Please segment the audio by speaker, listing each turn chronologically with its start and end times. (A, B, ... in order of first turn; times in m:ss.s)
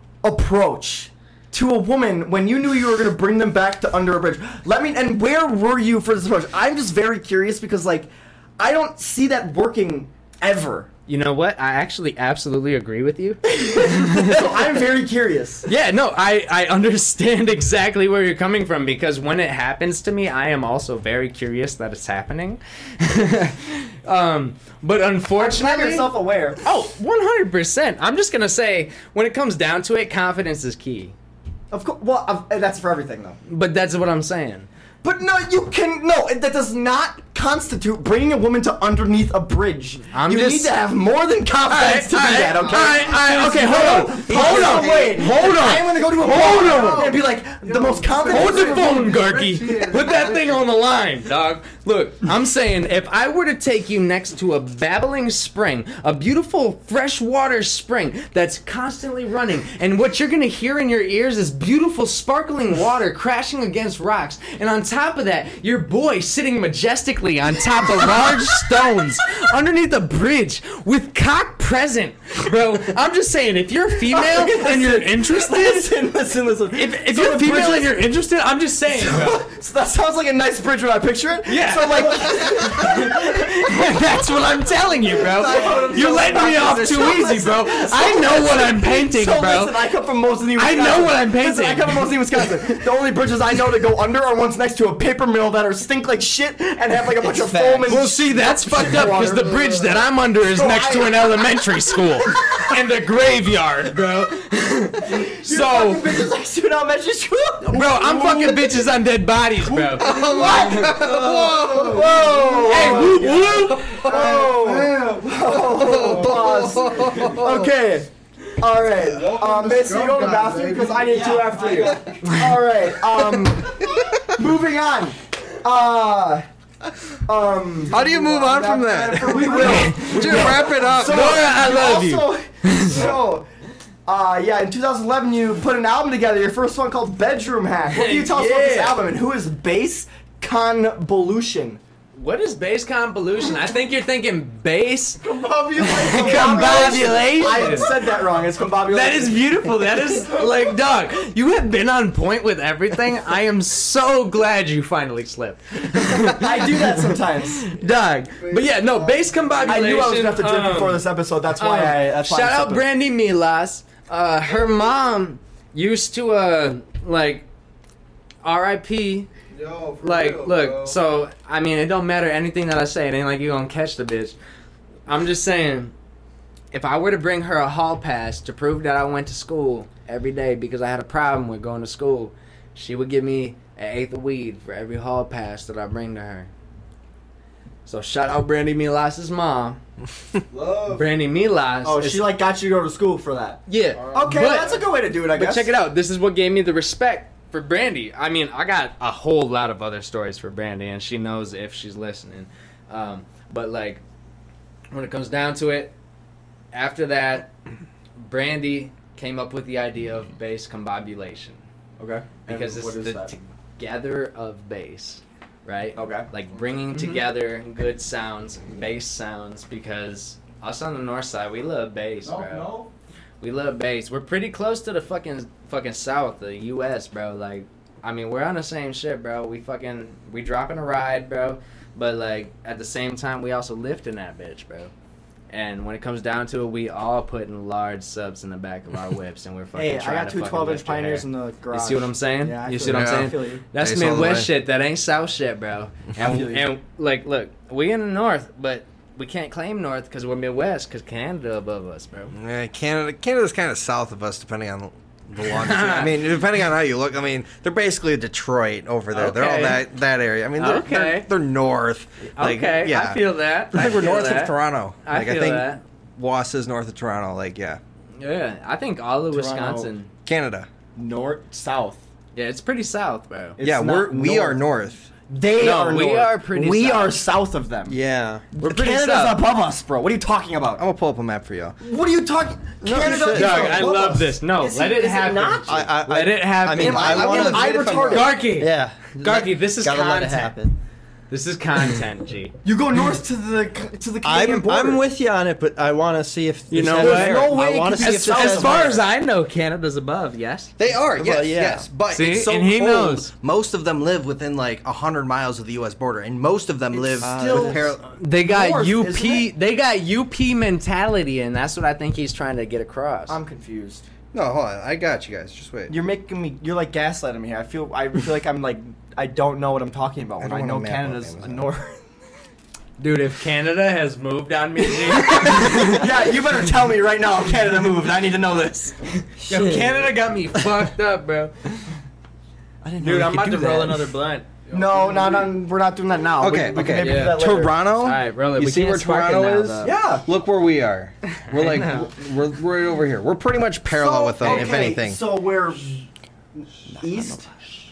0:00.2-0:10.9 A
0:11.1-0:14.5 B
0:13.5-0:15.7 A
0:15.7-0:26.1 B
0:25.4-0:26.6 A
0:26.6-0:31.1 B
0:31.7-0:33.4 A
0:33.5-0:34.7 B
0:35.0-0:49.0 A
0:40.1-0:40.8 B
0:41.6-0:47.1 B
0:44.7-0:45.1 C
0:46.1-0:50.6 C
0:48.2-1:15.9 B
1:08.0-1:08.5 A
1:14.1-1:18.0 A
1:16.7-1:19.4 B
1:18.9-1:23.8 A
1:21.4-1:29.8 B
1:25.1-1:39.6 A
1:25.4-1:26.5 C
1:30.5-1:32.2 B
1:37.2-1:46.1 B
1:39.5-1:39.9 C
1:40.5-1:41.6 A
1:42.2-1:42.7 A
1:45.0-1:48.8 A
1:47.7-1:51.0 B
1:49.7-1:57.5 C
1:50.0-1:51.7 D
1:50.1-2:06.5 A
1:52.6-1:54.2 B
1:55.8-1:57.3 D
1:59.0-2:02.3 C
2:02.2-2:02.6 B
2:03.8-2:04.1 C
2:07.2-2:13.5 A
2:07.9-2:08.5 C
2:07.9-2:11.5 D
2:09.2-2:10.9 C
2:09.6-2:13.1 B
2:12.9-2:13.2 C
2:14.0-2:21.8 A
2:17.9-2:19.0 B
2:22.2-2:28.0 B
2:25.2-2:27.2 C
2:25.8-2:29.8 A
2:28.8-2:47.4 B
2:30.2-2:30.5 C
2:36.2-2:37.6 A
2:38.3-2:40.2 C
2:39.6-2:42.8 A
2:48.4-2:49.3 B
2:49.5-2:51.0 C
2:50.0-2:54.4 B
2:55.1-2:55.9 B
2:56.7-3:06.5 B
3:07.8-3:09.8 B
3:10.5-3:11.1 C
3:10.9-3:12.3 B
3:11.8-3:15.7 A
3:13.7-3:24.0 B
3:13.9-3:14.8 C
3:24.9-3:25.9 B
3:26.7-3:27.5 B
3:28.2-3:31.6 B
3:32.0-3:33.3 A
3:32.4-3:42.7 B
3:35.9-3:36.3 A
3:36.9-3:37.2 A
3:42.3-3:42.9 C
3:43.4-3:54.9 B
3:55.5-4:12.3 B
3:59.7-4:03.6 A
4:02.8-4:04.5 D
4:06.2-4:06.7 A
4:12.3-4:27.8 D
4:15.4-4:16.2 B
4:19.1-4:19.8 B
4:20.6-4:21.3 B
4:22.3-4:25.8 B
4:28.2-4:30.1 B
4:29.3-4:29.9 A
4:30.2-4:30.7 D
4:31.0-4:32.0 A
4:32.3-4:33.6 B
4:33.6-4:34.6 A
4:33.6-4:35.1 D
4:35.3-4:38.0 A
4:35.6-4:37.2 B
4:37.9-4:38.4 E
4:38.5-4:40.8 A
4:38.6-4:39.4 B
4:40.8-4:41.8 D
4:41.8-4:48.3 A
4:42.8-4:43.9 D
4:42.9-4:43.5 E
4:43.3-4:50.6 B
4:45.7-4:48.4 D
4:46.6-4:48.0 E
4:48.6-4:50.7 E
4:51.3-4:52.5 B
4:52.6-4:55.0 A
4:54.2-4:58.8 E
4:56.7-5:00.7 B
4:57.0-4:59.0 A
5:00.8-5:08.1 D
5:01.1-5:01.8 E
5:02.1-5:03.3 B
5:06.9-5:09.5 A
5:07.2-5:07.9 E
5:08.1-5:13.4 B
5:13.3-5:14.0 A
5:14.3-5:15.9 D
5:15.9-5:22.0 A
5:20.4-5:21.7 D
5:23.0-5:26.1 B
5:25.0-5:29.0 A
5:29.4-5:31.9 B
5:29.5-5:29.8 E
5:32.8-5:34.4 B
5:33.0-5:34.0 E
5:34.7-5:35.5 C
5:34.7-5:37.8 A
5:36.4-5:45.2 D
5:37.0-5:39.9 B
5:39.8-5:40.3 A
5:41.4-5:42.1 B
5:43.9-5:46.1 A
5:44.4-5:44.8 B
5:46.6-5:47.4 A